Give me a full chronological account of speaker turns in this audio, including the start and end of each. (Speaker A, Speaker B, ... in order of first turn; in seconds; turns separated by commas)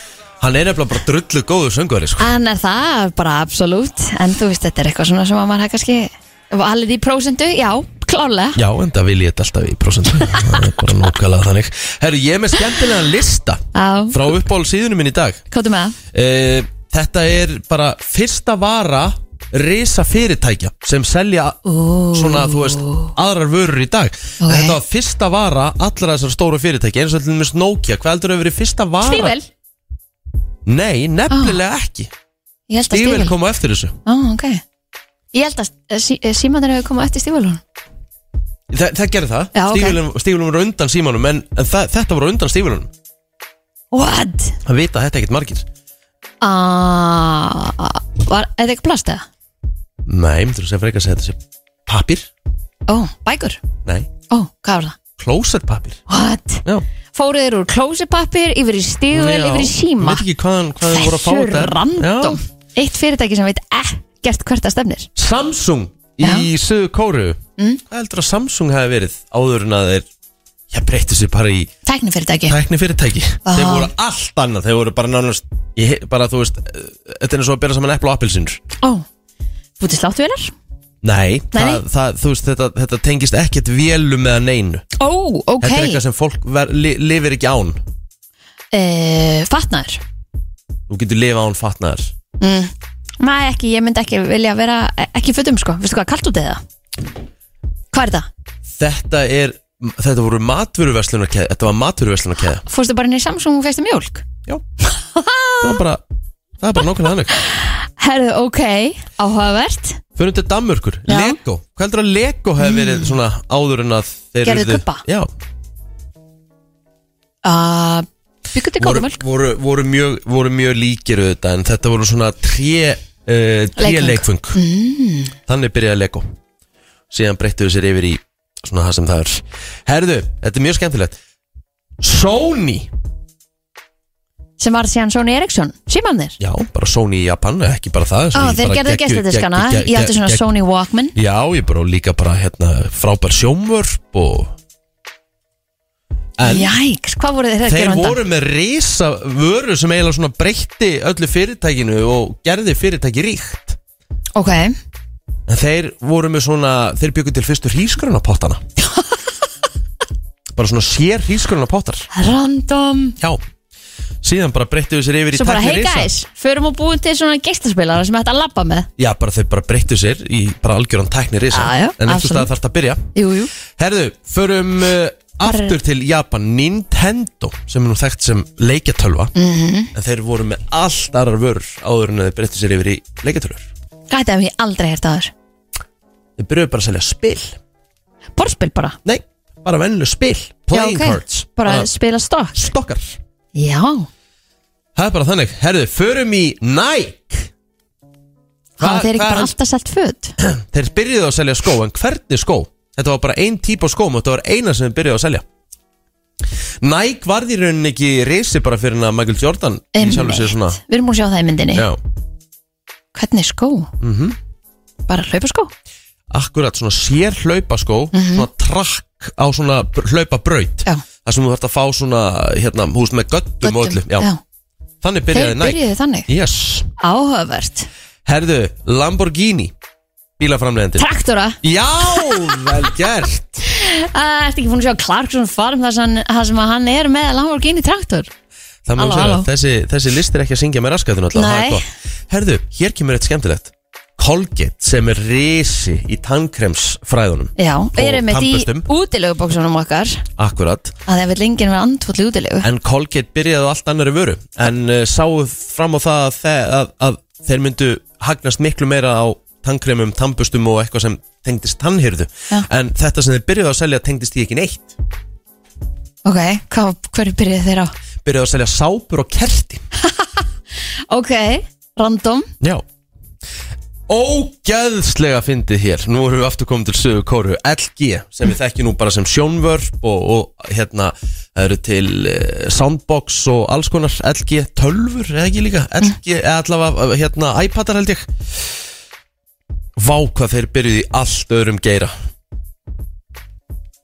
Speaker A: 0.4-2.3, Speaker B: 2.2-8.6, Speaker A: 8.6-15.4, Speaker B: 13.7-14.2, Speaker B: 15.5-16.0, Speaker A: 16.1-21.6, Speaker B: 21.6-23.1, Speaker A: 22.1-29.4, Speaker B: 24.4-24.8, Speaker B: 29.0-29.5, Speaker A: 30.7-32.1, Speaker B: 31.3-31.6, Speaker B: 32.7-33.4, Speaker A: 32.9-34.0, Speaker B: 34.1-34.6, Speaker B: 35.3-37.6, Speaker A: 38.7-42.9, Speaker B: 39.5-40.0, Speaker B: 43.9-44.6, Speaker A: 44.6-45.7, Speaker B: 46.4-49.3, Speaker A: 50.1-52.3, Speaker B: 52.9-53.6, Speaker B: 54.3-55.0, Speaker A: 55.2-56.0, Speaker B: 56.1-60.2, Speaker A: 59.1-62.4, Speaker B: 60.9-65.1, Speaker A: 65.2-70.1, Speaker B: 66.2-66.5, Speaker A: 70.7-71.7, Speaker B: 71.8-72.6, Speaker A: 72.5-78.6, Speaker B: 73.5-73.9, Speaker B: 79.8-80.5, Speaker A: 81.0-84.8, Speaker B: 81.5-81.8, Speaker B: 85.0-86.0, Speaker A: 85.6-87.8, Speaker B: 88.7-90.0, Speaker A: 90.9-92.1, Speaker B: 92.4-96.6, Speaker B: 97.9-98.3, Speaker A: 98.7-102.6, Speaker B: 102.7-104.3, Speaker B: 104.8-105.8, Speaker A: 105.6-106.0, Speaker A: 106.6-107.4, Speaker B: 107.4-110.0, Speaker A: 110.2-115.3, Speaker B: 111.1-111.4, Speaker B: 112.6-113.2, Speaker B: 114.5-115.0, Speaker B: 117.4-119.2, Speaker A: 118.8-124.6, Speaker B: 123.8-125.3, Speaker A: 125.5-126.3, Speaker A: 127.1-131.2, Speaker A: 132.0-132.9, Speaker B: 134.6-136.4, Speaker A: 136.4-140.4, Speaker B: 138.3-141.1, Speaker A: 141.1-144.5, Speaker A: 146.4-146.7, Speaker B: 146.4-148.2, Speaker A: 147.7-153.8, Speaker B: 154.3-154.8, Speaker A: 155.5-158.6, Speaker B: 158.8-159.2, Speaker A: 160.6-162.1, Speaker B: 162.1-163.2, Speaker A: 164.2-166.1, Speaker B: 165.3-168.9, Speaker A: 169.0-173.1, Speaker B: 171.5-172.5, Speaker B: 173.1-173.5, Speaker A: 173.7-179.3, Speaker B: 175.4-175.8, Speaker B: 179.3-179.9, Speaker A: 179.9-183.7, Speaker B: 184.1-185.3, Speaker A: 186.4-187.6, Speaker B: 188.4-189.0, Speaker A: 189.1-191.9, Speaker B: 190.7-192.7, Speaker A: 192.6-193.2, Speaker B: 193.6-194.1, Speaker A: 195.0-197.5, Speaker B: 198.8-200.3, Speaker A: 198.8-199.5, Speaker A: 200.4-205.4, Speaker A: 206.8-210.8, Speaker B: 209.9-211.9, Speaker A: 211.8-212.0, Speaker B: 213.1-213.9, Speaker A: 214.0-214.4, Speaker B: 215.1-215.7, Speaker A: 216.3-224.3, Speaker B: 218.1-218.5, Speaker B: 223.6-224.4, Speaker A: 225.0-226.9, Speaker B: 225.3-226.3, Speaker B: 227.0-227.9, Speaker A: 228.3-229.7, Speaker A: 230.4-231.1, Speaker B: 231.0-232.7, Speaker A: 231.6-233.6, Speaker B: 233.6-238.3, Speaker A: 238.9-248.9, Speaker B: 239.0-239.5, Speaker B: 241.3-241.8, Speaker B: 247.6-250.2, Speaker A: 250.4-250.9, Speaker B: 251.1-252.7, Speaker A: 252.6-264.9, Speaker B: 266.2-267.9, Speaker A: 268.2-269.8, Speaker B: 270.0-270.4, Speaker B: 271.1-272.5, Speaker A: 274.1-288.3, Speaker A: 289.9-292.1